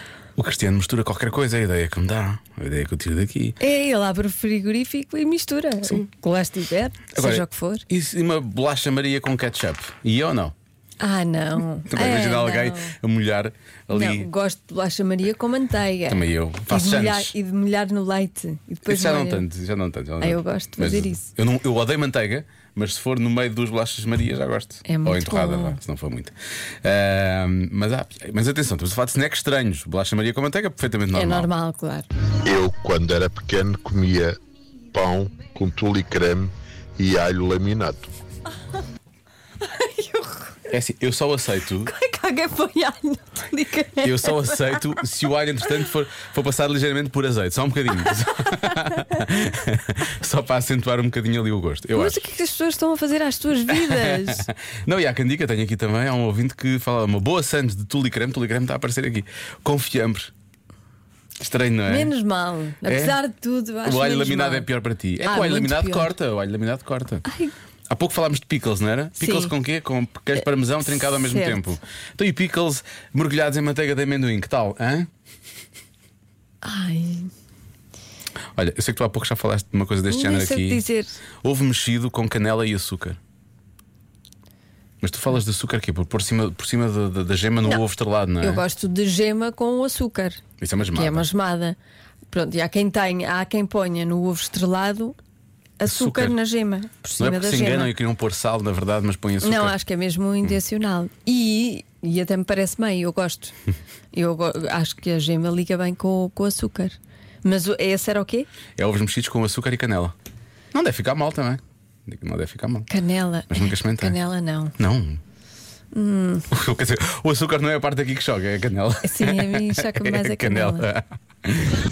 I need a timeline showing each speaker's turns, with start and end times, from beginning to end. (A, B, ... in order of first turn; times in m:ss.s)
0:00.4-0:03.6 A
0:03.6-0:07.8 B
0:07.1-0:10.5 A
0:11.0-0:12.9 B
0:11.9-0:14.3 A
0:13.9-0:19.4 B
0:16.1-0:17.3 A
0:18.8-0:31.5 A
0:20.2-0:21.2 B
0:24.9-0:25.8 B
0:31.1-0:32.1 B
0:32.4-0:34.4 C
0:34.9-0:38.1 C
0:39.6-0:40.6 B
0:40.7-0:41.9 A
0:41.8-0:44.9 B
0:44.0-0:52.2 A
0:48.5-0:48.8 B
0:51.9-0:54.5 B
0:53.7-1:00.3 A
1:01.4-1:02.1 A
1:01.9-1:04.7 B
1:02.8-1:03.2 A
1:03.8-1:07.2 A
1:05.2-1:06.1 B
1:07.2-1:07.5 B
1:07.9-1:15.1 A
1:09.2-1:09.5 B
1:10.9-1:11.8 B
1:16.6-1:17.3 B
1:18.6-1:20.8 A
1:20.1-1:21.1 B
1:21.4-1:23.2 A
1:25.0-1:28.6 A
1:28.4-1:30.4 B
1:30.6-1:31.3 A
1:30.9-1:31.8 B
1:32.3-1:35.2 B
1:35.8-1:37.9 B
1:35.8-1:36.4 A
1:37.2-1:39.8 A
1:39.4-1:43.5 B
1:44.1-1:48.5 B
1:48.8-1:50.1 A
1:50.7-1:52.9 A
1:52.9-1:54.7 B
1:53.5-1:54.2 A
1:54.8-1:55.2 A
1:55.9-1:56.5 B
1:56.5-2:01.8 A
1:59.0-2:00.8 B